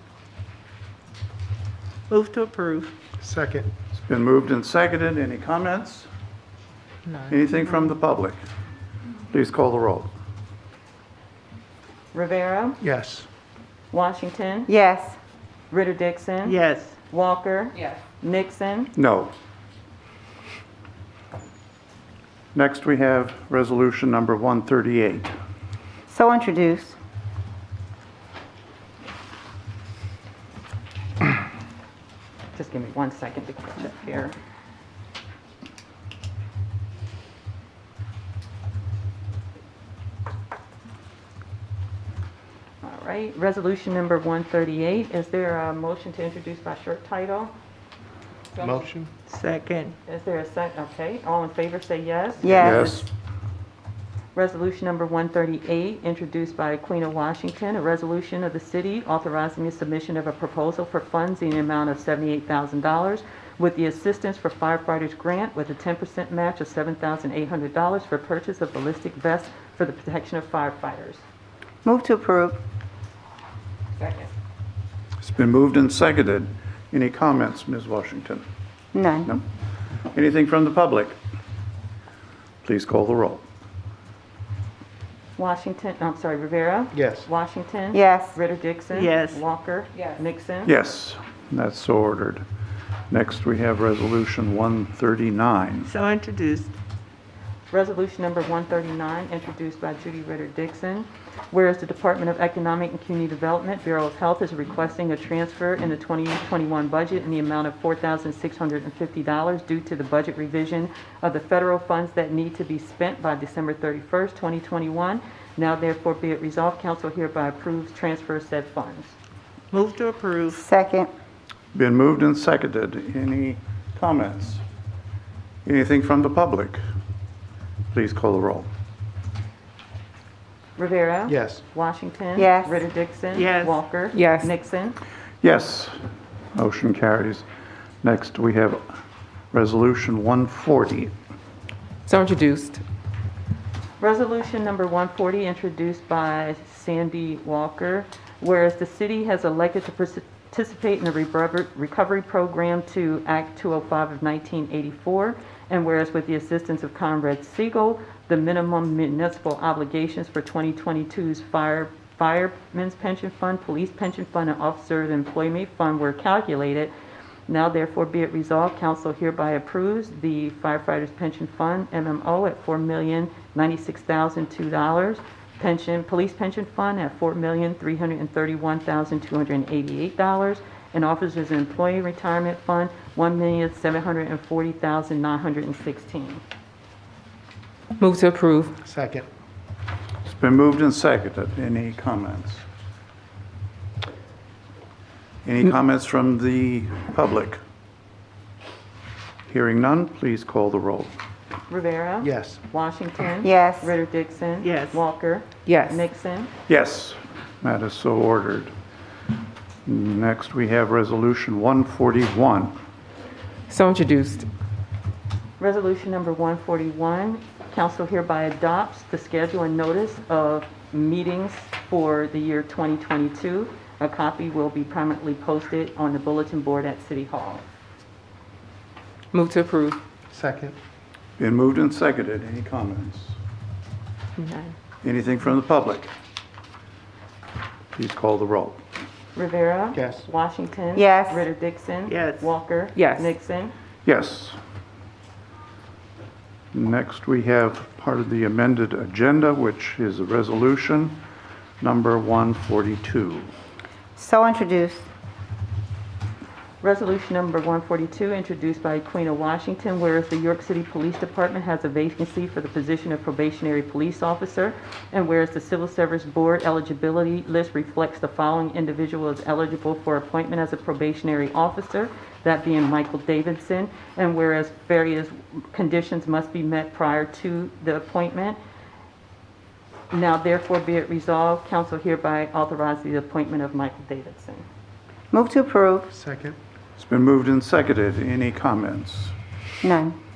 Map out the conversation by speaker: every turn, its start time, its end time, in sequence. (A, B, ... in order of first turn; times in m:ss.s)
0:02.1-0:02.9 A
0:03.2-0:03.7 B
0:03.9-0:06.1 C
0:07.3-0:08.4 C
0:09.3-0:10.1 C
0:12.1-0:12.8 D
0:12.8-0:13.3 B
0:13.9-0:14.7 D
0:14.7-0:15.2 E
0:15.7-0:18.9 D
0:16.4-0:17.0 A
0:19.0-0:19.3 C
0:22.5-0:25.3 C
0:26.1-0:27.0 E
0:32.5-0:34.4 D
0:42.8-0:47.5 D
0:48.6-0:49.1 B
0:49.3-0:50.0 A
0:50.1-0:53.1 D
0:52.4-0:53.0 E
0:52.6-0:53.1 C
0:54.3-1:11.2 D
1:11.8-1:12.6 E
1:15.2-1:18.4 C
1:18.9-1:19.3 E
1:20.1-1:21.2 C
1:22.6-1:23.4 C
1:25.4-1:30.8 D
1:26.9-1:27.3 B
1:27.9-1:28.4 E
1:28.9-1:29.4 A
1:30.6-1:32.4 C
1:33.1-1:35.9 C
1:35.8-1:36.7 A
1:37.7-1:59.2 D
1:59.7-2:00.6 A
2:00.5-2:01.1 E
2:01.7-2:04.6 C
2:05.6-2:06.8 C
2:07.9-2:08.7 C
2:10.8-2:15.0 D
2:11.3-2:11.6 B
2:12.4-2:12.8 E
2:13.3-2:13.8 A
2:14.1-2:14.5 F
2:15.4-2:16.0 C
2:16.6-2:17.4 C
2:18.0-2:18.8 C
2:19.5-2:21.1 C
2:22.1-2:22.8 F
2:24.0-2:46.9 D
2:47.5-3:06.4 D
3:08.0-3:08.8 F
3:08.8-3:09.3 B
3:10.3-3:12.6 C
3:15.4-3:17.6 C
3:19.5-3:21.1 C
3:21.7-3:26.5 D
3:22.2-3:22.6 B
3:23.4-3:23.9 E
3:24.6-3:25.0 A
3:25.7-3:26.0 F
3:26.7-3:28.7 C
3:29.9-3:32.7 C
3:33.7-3:34.5 F
3:35.6-3:47.6 D
3:49.3-3:50.0 F
3:50.3-3:50.8 B
3:51.4-3:53.4 C
3:55.0-3:56.1 C
3:58.0-3:58.8 C
3:59.4-4:03.7 D
3:59.9-4:00.3 B
4:01.0-4:01.5 E
4:02.1-4:02.5 A
4:03.0-4:03.3 F
4:04.0-4:04.6 C
4:06.7-4:11.2 C
4:11.8-4:13.5 C
4:14.2-4:15.1 E
4:16.8-4:38.6 D
4:40.1-4:44.6 D
4:45.3-4:46.1 E
4:46.1-4:46.6 B
4:47.0-4:49.3 C
4:49.8-4:50.2 E